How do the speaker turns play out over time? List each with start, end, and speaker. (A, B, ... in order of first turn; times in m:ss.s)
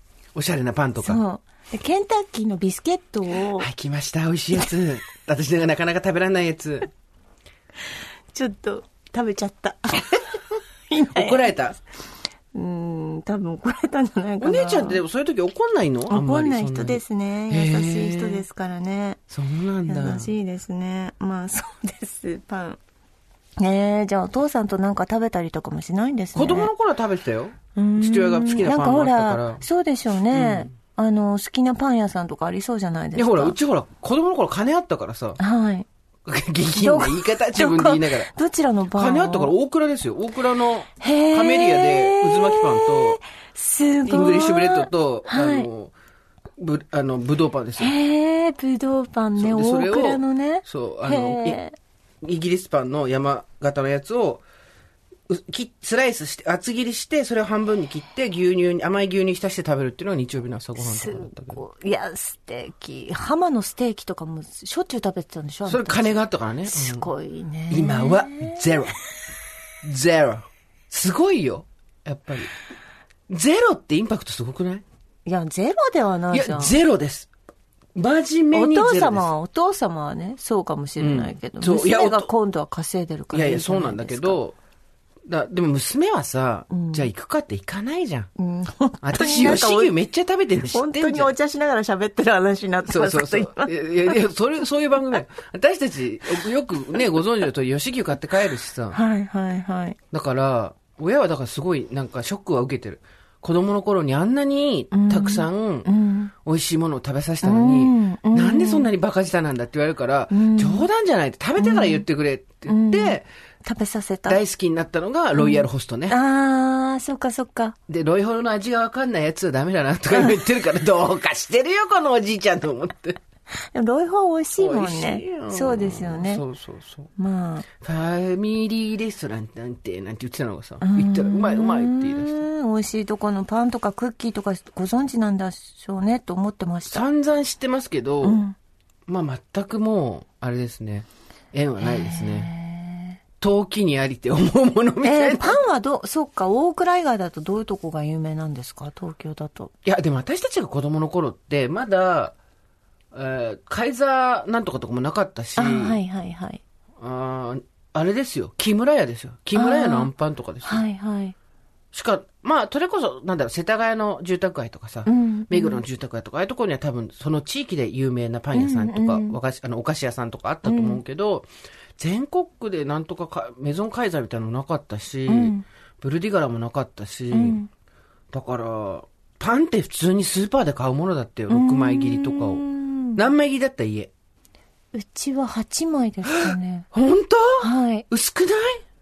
0:00.3-0:01.2 A
0:01.0-0:03.7 B
0:03.6-0:06.9 A
0:08.3-0:11.5 B
0:11.1-0:11.8 A
0:12.5-0:15.0 B
0:14.4-0:18.4 A
0:16.1-0:19.2 B
0:19.3-0:20.3 A
0:19.9-0:22.8 B
0:23.6-0:26.7 B
0:26.3-0:29.6 A
0:27.7-0:33.6 B
0:30.3-0:30.7 A
0:33.1-0:35.4 A
0:35.4-0:35.9 B
0:36.2-0:38.3 A
0:36.8-0:39.5 B
0:39.0-0:43.2 A
0:41.0-0:45.7 B
0:44.0-0:45.9 A
0:46.6-0:47.9 A
0:47.8-0:51.8 B
0:49.4-0:51.6 A
0:52.2-0:54.4 A
0:55.3-1:01.6 A
1:00.8-1:08.8 B
1:05.6-1:07.1 A
1:07.7-1:08.9 A
1:09.8-1:12.5 A
1:13.3-1:14.8 A
1:15.2-1:16.7 B
1:16.3-1:17.3 A
1:17.9-1:19.3 A
1:18.5-1:24.4 B
1:21.0-1:22.3 A
1:23.3-1:24.6 A
1:25.3-1:28.3 A
1:26.7-1:27.1 B
1:28.4-1:29.9 B
1:29.0-1:31.3 A
1:30.7-1:34.2 B
1:32.8-1:39.0 A
1:38.9-1:40.0 B
1:40.1-1:45.9 A
1:44.9-1:46.3 B
1:46.4-1:53.2 A
1:47.4-1:48.9 B
1:50.3-1:50.9 B
1:51.6-1:52.0 B
1:52.6-1:54.4 B
1:54.3-1:56.2 A
1:55.3-1:57.8 B
1:57.9-2:03.2 A
2:03.5-2:06.4 B
2:04.6-2:07.1 A
2:07.2-2:07.6 B
2:07.8-2:12.4 A
2:10.8-2:17.0 B
2:16.9-2:18.4 A
2:18.2-2:18.6 B
2:19.1-2:22.5 A
2:21.8-2:23.2 B
2:23.4-2:25.6 A
2:25.0-2:29.7 B
2:29.8-2:32.3 A
2:33.1-2:36.0 A
2:35.6-2:36.6 B
2:37.0-2:40.8 A
2:39.5-2:40.1 B
2:40.6-2:41.3 B
2:41.9-2:57.6 A
2:45.0-2:45.8 B
2:48.5-2:49.4 B
2:50.6-2:51.0 B
2:55.3-2:55.6 B
2:57.3-2:57.7 B
2:58.3-3:02.6 A
3:01.5-3:03.2 B
3:03.1-3:04.1 A
3:04.9-3:06.8 B
3:06.3-3:08.8 A
3:07.6-3:08.0 B